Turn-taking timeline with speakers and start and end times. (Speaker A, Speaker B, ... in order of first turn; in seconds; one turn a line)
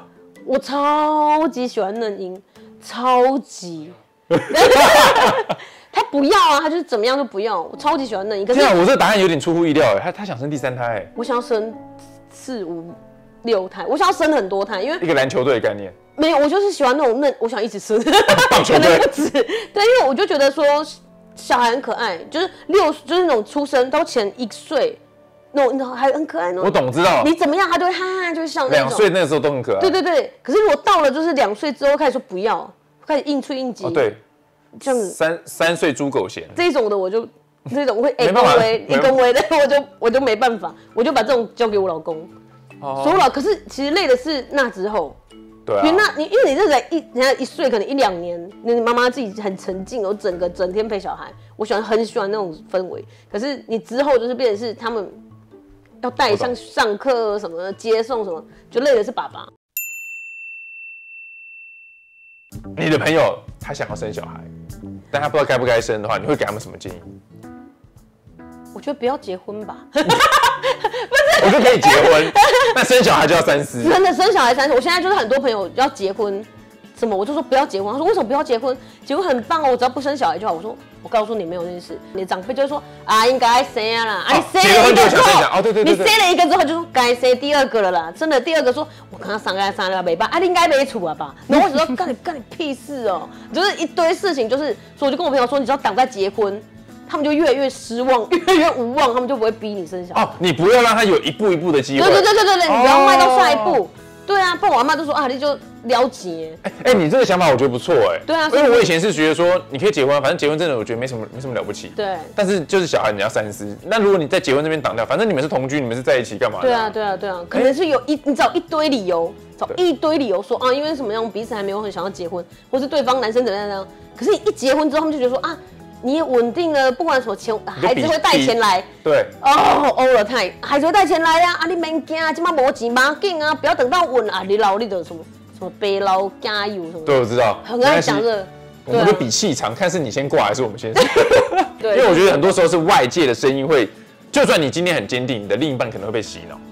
Speaker A: 0.5-8.8
Speaker B: 4.3-5.4
Speaker B: 8.5-11.1
Speaker A: 11.1-15.0
Speaker B: 15.0-15.9
Speaker A: 16.1-25.0
Speaker B: 18.2-19.1
Speaker A: 25.5-29.1
Speaker B: 26.6-27.3
Speaker B: 28.7-29.9
Speaker A: 29.8-34.1
Speaker B: 33.8-34.2
Speaker A: 34.8-35.1
Speaker B: 34.9-36.6
Speaker A: 36.5-42.3
Speaker B: 38.2-39.1
Speaker B: 42.8-43.3
Speaker A: 43.0-45.2
Speaker B: 45.6-46.1
Speaker A: 45.8-55.2
Speaker A: 56.0-59.5
Speaker B: 56.3-56.5
Speaker B: 62.8-64.5
Speaker B: 65.1-67.1
Speaker A: 68.7-72.8
Speaker B: 71.4-74.0
Speaker A: 73.8-100.3
Speaker B: 84.3-86.2
Speaker B: 100.1-103.8
Speaker A: 102.0-106.6
Speaker B: 106.6-116.9
Speaker A: 108.2-108.9
Speaker A: 112.0-112.3
Speaker A: 116.6-139.3
Speaker B: 127.8-129.3
Speaker B: 137.0-138.3
Speaker B: 138.8-146.6
Speaker A: 141.0-142.5